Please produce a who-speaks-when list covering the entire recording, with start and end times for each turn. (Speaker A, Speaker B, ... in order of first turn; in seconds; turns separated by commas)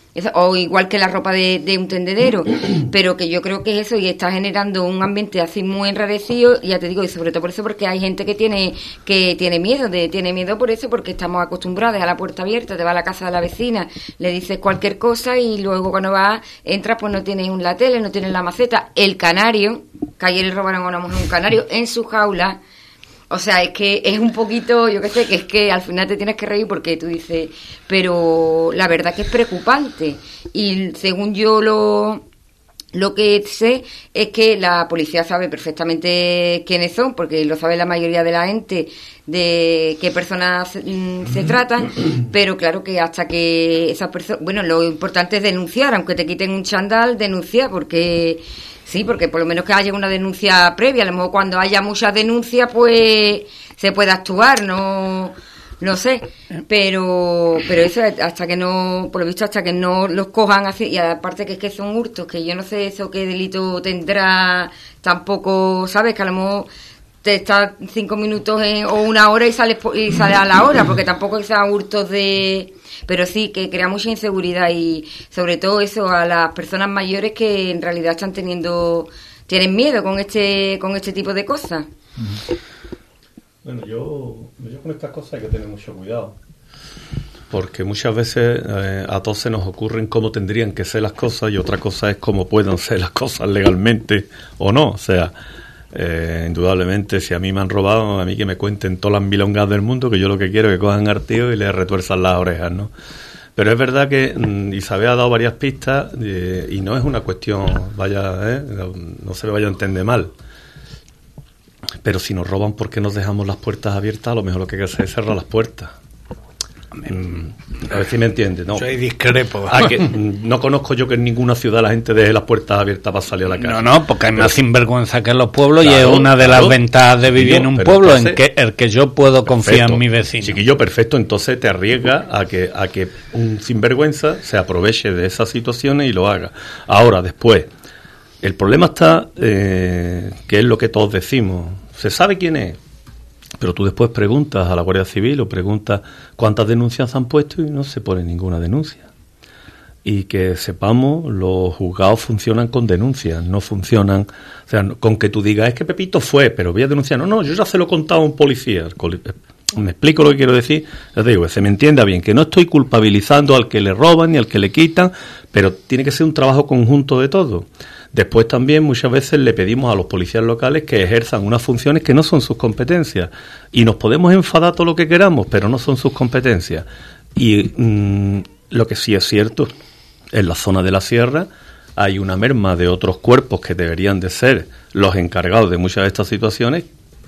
Speaker A: 0.1-22.6, Speaker A: 23.3-32.2, Speaker A: 32.9-66.7, Speaker A: 67.2-81.9, Speaker B: 83.6-86.3, Speaker B: 87.5-95.3, Speaker B: 95.9-102.9, Speaker B: 103.6-110.3, Speaker B: 112.0-115.9, Speaker C: 117.1-117.4, Speaker B: 117.1-118.9, Speaker C: 118.8-120.1, Speaker B: 119.7-124.5, Speaker C: 123.6-130.6, Speaker B: 125.8-128.4, Speaker B: 129.5-137.7, Speaker B: 138.4-142.8, Speaker B: 143.6-149.1, Speaker B: 150.0-179.7, Speaker B: 180.3-186.9